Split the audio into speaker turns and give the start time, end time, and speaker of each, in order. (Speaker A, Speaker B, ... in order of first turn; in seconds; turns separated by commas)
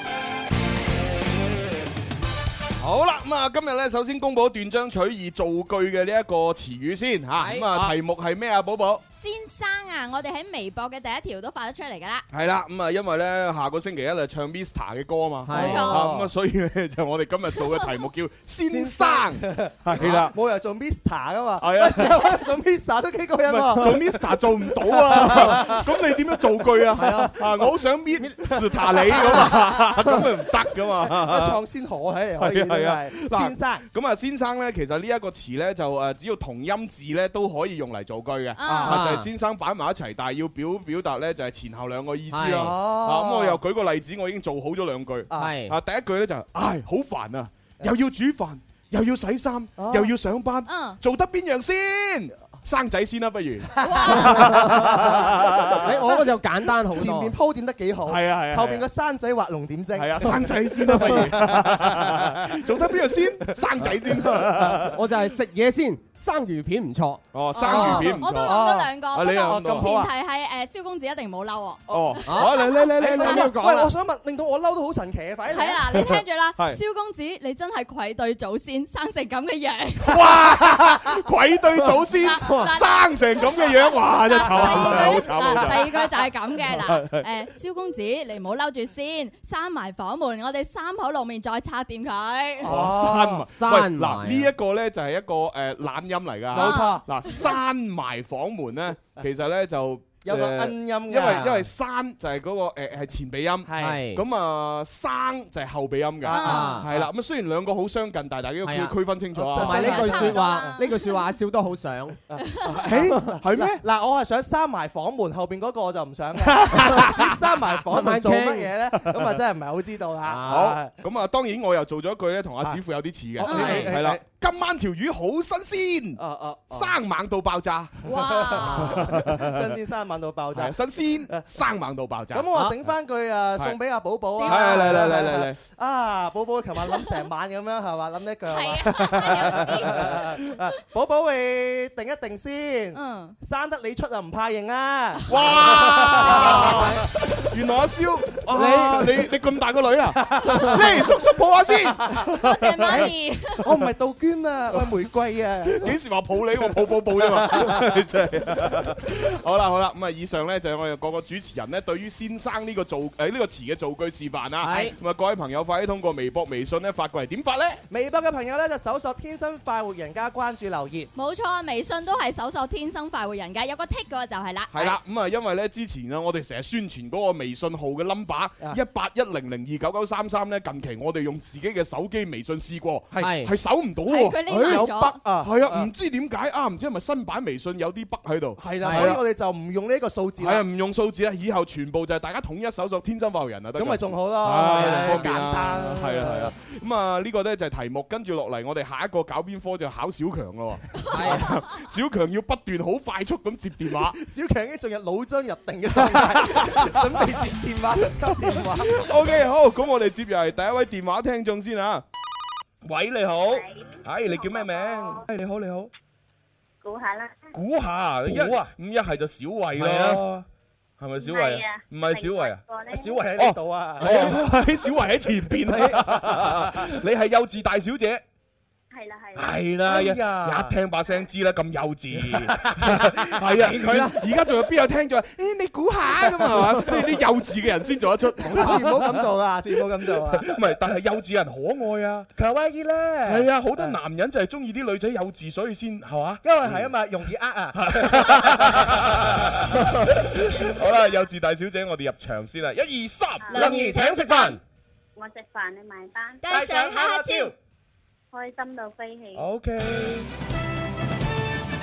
Speaker A: 2.8-9.0, Speaker B: 7.4-7.9, Speaker C: 9.2-12.2, Speaker A: 12.3-20.3, Speaker B: 15.4-15.9, Speaker C: 15.5-16.1, Speaker D: 15.8-16.3, Speaker B: 18.7-19.2, Speaker D: 19.4-26.0, Speaker A: 21.6-22.3, Speaker A: 23.4-31.6, Speaker D: 26.9-27.6, Speaker B: 27.0-27.4, Speaker D: 28.5-30.2, Speaker D: 31.0-33.8, Speaker A: 32.4-55.9, Speaker C: 38.6-39.0, Speaker B: 38.8-39.3, Speaker B: 42.3-42.7, Speaker D: 42.5-43.6, Speaker B: 45.4-45.7, Speaker D: 49.8-50.1, Speaker C: 50.6-51.0, Speaker C: 53.8-54.5, Speaker B: 54.3-54.8, Speaker D: 54.7-55.3, Speaker B: 55.8-57.3, Speaker D: 56.9-62.7, Speaker A: 58.0-58.8, Speaker A: 60.0-65.0, Speaker D: 63.8-64.8, Speaker B: 64.7-68.1, Speaker A: 67.3-70.0, Speaker C: 67.6-72.9, Speaker D: 67.7-70.1, Speaker A: 71.9-73.5, Speaker B: 72.2-73.9, Speaker D: 73.1-76.1, Speaker C: 75.5-80.3, Speaker A: 80.0-87.2, Speaker C: 82.2-92.7, Speaker B: 82.4-82.7, Speaker D: 84.7-85.7, Speaker D: 92.6-93.4, Speaker A: 92.7-110.2, Speaker B: 93.5-94.5, Speaker D: 96.5-97.0, Speaker C: 96.5-97.0, Speaker D: 100.2-101.5, Speaker B: 101.3-101.6, Speaker D: 103.7-104.0, Speaker B: 103.8-104.2, Speaker D: 106.2-107.1, Speaker C: 106.3-106.8, Speaker B: 106.4-106.8, Speaker B: 108.6-108.9, Speaker D: 109.3-110.7, Speaker B: 109.5-112.2, Speaker C: 109.7-111.3, Speaker D: 112.3-120.9, Speaker A: 112.8-113.8, Speaker A: 116.4-117.5, Speaker B: 117.9-118.7, Speaker B: 120.3-120.7, Speaker A: 120.5-128.0, Speaker D: 123.4-124.2, Speaker C: 123.4-123.8, Speaker B: 123.5-123.9, Speaker D: 126.2-126.9, Speaker C: 128.0-129.1, Speaker D: 128.1-131.4, Speaker A: 128.6-129.7, Speaker A: 130.5-132.5, Speaker D: 132.3-147.1, Speaker C: 134.4-135.2, Speaker A: 134.4-135.6, Speaker C: 138.5-140.1, Speaker C: 142.9-143.3, Speaker A: 145.3-153.1, Speaker C: 146.2-146.6, Speaker B: 148.5-149.1, Speaker D: 148.6-149.0, Speaker D: 150.2-151.1, Speaker C: 152.3-153.7, Speaker D: 153.6-155.9, Speaker A: 155.7-167.8, Speaker D: 157.2-158.9, Speaker B: 164.6-164.9, Speaker D: 167.9-171.1, Speaker C: 171.1-174.9, Speaker A: 174.7-184.8, Speaker B: 183.2-183.5, Speaker C: 184.1-185.2, Speaker D: 184.5-185.9, Speaker A: 185.4-189.2, Speaker D: 188.6-190.6, Speaker B: 188.8-189.2, Speaker A: 190.4-204.2, Speaker D: 193.8-196.5, Speaker B: 194.7-195.3, Speaker B: 201.1-201.5, Speaker D: 204.0-209.1, Speaker A: 205.9-207.2, Speaker A: 208.6-212.0, Speaker A: 212.8-215.9, Speaker E: 213.5-215.2, Speaker E: 216.8-217.5, Speaker A: 217.5-220.4, Speaker D: 218.2-218.6, Speaker B: 219.8-220.2, Speaker A: 221.0-222.6, Speaker E: 221.2-223.2, Speaker D: 222.9-224.4, Speaker A: 223.4-228.2, Speaker B: 224.0-224.3, Speaker B: 225.7-226.0, Speaker D: 225.8-226.7, Speaker E: 228.9-229.6, Speaker A: 229.3-239.2, Speaker D: 229.8-230.7, Speaker D: 232.2-233.2, Speaker B: 233.6-234.2, Speaker D: 238.4-240.6, Speaker A: 240.1-242.3, Speaker D: 242.3-244.0, Speaker A: 243.2-246.9, Speaker D: 246.4-249.1, Speaker A: 247.7-254.4, Speaker E: 253.4-253.8, Speaker C: 253.5-254.6, Speaker D: 253.5-254.6, Speaker E: 255.2-256.6, Speaker C: 256.4-257.5, Speaker D: 256.5-257.5, Speaker E: 258.3-259.5, Speaker A: 259.3-260.3